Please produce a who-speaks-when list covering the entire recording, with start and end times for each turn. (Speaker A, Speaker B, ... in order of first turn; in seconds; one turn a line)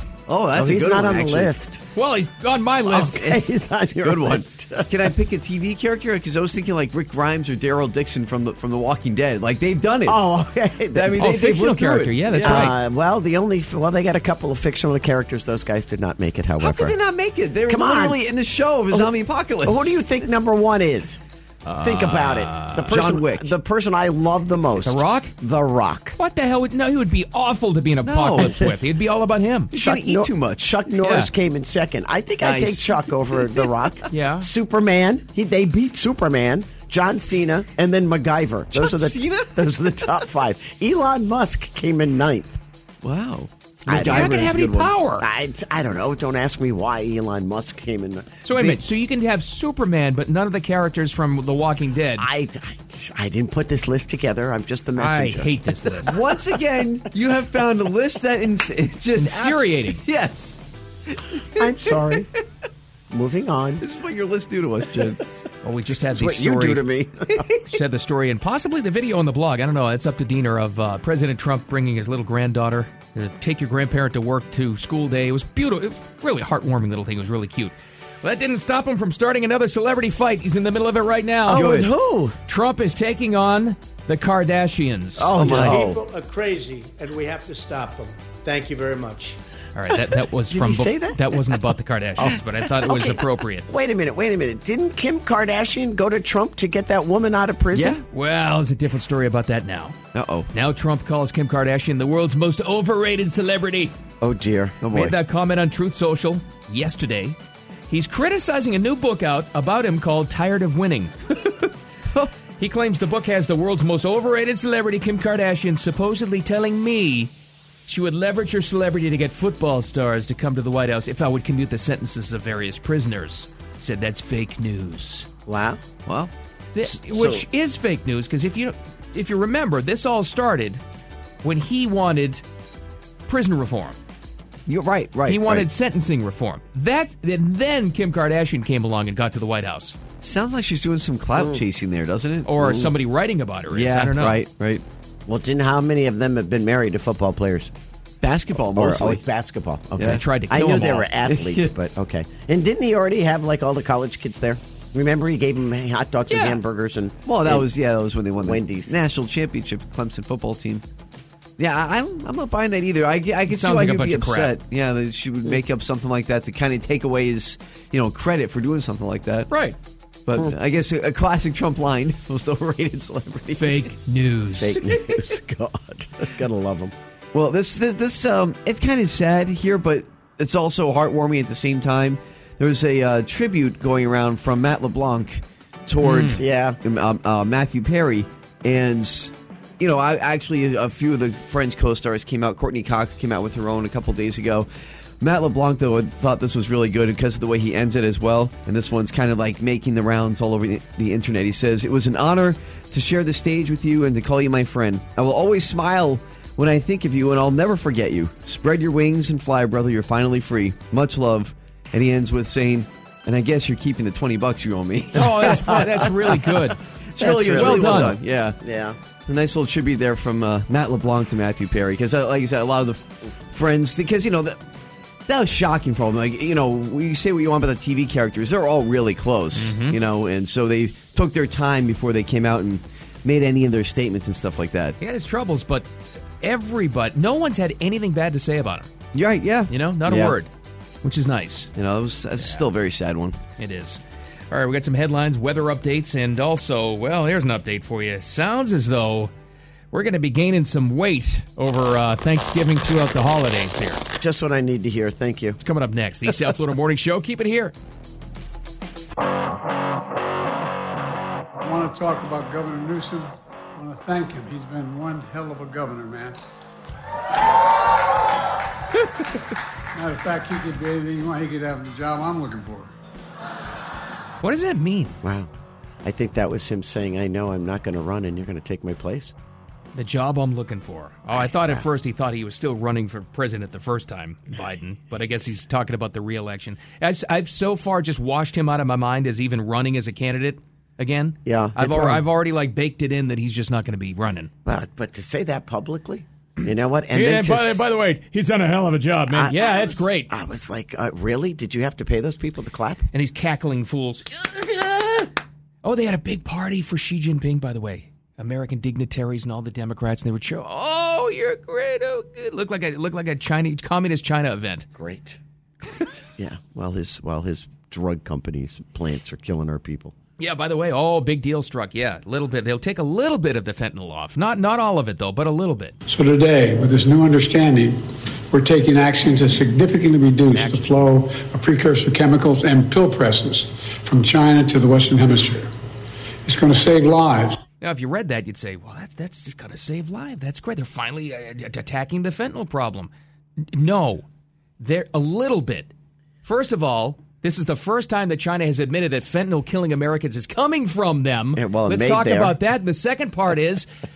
Speaker A: 0.3-1.5
Speaker B: 0.5-1.8
Speaker C: 1.9-3.4
Speaker B: 2.9-5.1
Speaker A: 4.0-10.2
Speaker B: 10.1-11.3
Speaker A: 10.9-12.7
Speaker C: 11.2-12.8
Speaker B: 12.4-17.0
Speaker A: 16.6-20.0
Speaker B: 17.7-18.2
Speaker B: 19.6-21.2
Speaker C: 21.6-22.9
Speaker B: 21.8-26.2
Speaker A: 22.8-23.5
Speaker C: 24.8-25.3
Speaker C: 26.1-29.7
Speaker A: 28.0-28.7
Speaker A: 29.7-30.8
Speaker B: 29.8-42.6
Speaker C: 31.0-31.3
Speaker A: 32.4-33.7
Speaker C: 34.1-34.5
Speaker A: 38.8-40.2
Speaker A: 43.0-44.9
Speaker B: 43.9-44.7
Speaker C: 43.9-45.2
Speaker B: 45.2-48.8
Speaker C: 48.4-52.3
Speaker B: 52.2-56.4
Speaker C: 55.0-56.1
Speaker A: 56.0-61.6
Speaker C: 59.1-60.0
Speaker B: 61.5-62.3
Speaker B: 63.1-63.8
Speaker A: 63.8-65.2
Speaker C: 65.6-66.8
Speaker B: 66.1-67.5
Speaker A: 67.3-67.6
Speaker C: 67.7-81.9
Speaker B: 81.5-82.4
Speaker A: 81.5-81.8
Speaker C: 82.5-85.3
Speaker B: 85.2-86.0
Speaker A: 85.3-85.9
Speaker D: 85.4-89.4
Speaker C: 89.7-93.7
Speaker B: 90.5-91.3
Speaker B: 92.8-98.0
Speaker A: 97.7-98.0
Speaker C: 98.1-100.0
Speaker A: 100.1-100.5
Speaker C: 100.5-104.0
Speaker B: 104.2-104.8
Speaker A: 104.8-105.2
Speaker C: 104.9-107.3
Speaker C: 107.9-111.5
Speaker C: 112.6-117.3
Speaker C: 117.9-125.3
Speaker B: 125.5-125.8
Speaker A: 126.0-126.3
Speaker C: 126.7-130.8
Speaker B: 127.1-127.4
Speaker C: 131.4-132.4
Speaker C: 133.2-134.0
Speaker A: 134.7-135.7
Speaker C: 135.3-140.0
Speaker A: 140.2-142.9
Speaker B: 141.3-141.6
Speaker C: 142.4-144.4
Speaker A: 143.7-144.8
Speaker B: 145.2-147.7
Speaker A: 148.2-149.2
Speaker B: 148.5-157.7
Speaker C: 150.0-151.1
Speaker A: 151.3-151.7
Speaker C: 156.3-156.6
Speaker A: 157.2-160.8
Speaker B: 158.4-158.9
Speaker A: 161.6-169.5
Speaker C: 163.5-164.5
Speaker C: 169.5-169.8
Speaker A: 170.2-173.9
Speaker C: 173.5-174.8
Speaker B: 174.6-176.9
Speaker A: 177.3-194.7
Speaker C: 186.0-186.4
Speaker B: 186.3-186.8
Speaker A: 195.2-216.5
Speaker C: 215.1-216.8
Speaker A: 217.1-218.6
Speaker B: 217.2-219.0
Speaker C: 217.5-218.2
Speaker A: 219.2-224.6
Speaker A: 225.3-235.0
Speaker C: 229.5-230.0
Speaker C: 235.0-238.9
Speaker A: 239.1-240.4
Speaker C: 239.7-240.5
Speaker C: 241.0-241.7
Speaker A: 241.8-243.4
Speaker C: 242.4-242.6
Speaker C: 243.6-244.0
Speaker C: 244.5-249.3
Speaker C: 249.9-254.0
Speaker B: 254.2-255.6
Speaker C: 255.6-257.7
Speaker E: 261.6-266.4
Speaker E: 269.9-272.9
Speaker C: 274.4-275.2
Speaker B: 275.2-275.5
Speaker B: 276.0-279.3
Speaker C: 279.9-294.5
Speaker B: 281.3-281.8
Speaker B: 291.4-292.2
Speaker B: 294.6-297.9
Speaker C: 297.1-300.3
Speaker B: 299.3-303.1
Speaker C: 303.1-305.3
Speaker C: 305.8-314.9
Speaker B: 314.9-315.4
Speaker B: 316.4-320.1
Speaker C: 320.4-326.0
Speaker E: 326.1-335.7
Speaker C: 330.5-330.9
Speaker E: 336.4-337.6
Speaker C: 337.8-343.1
Speaker C: 343.6-344.2
Speaker C: 344.8-345.9
Speaker C: 346.4-353.9
Speaker B: 351.5-352.6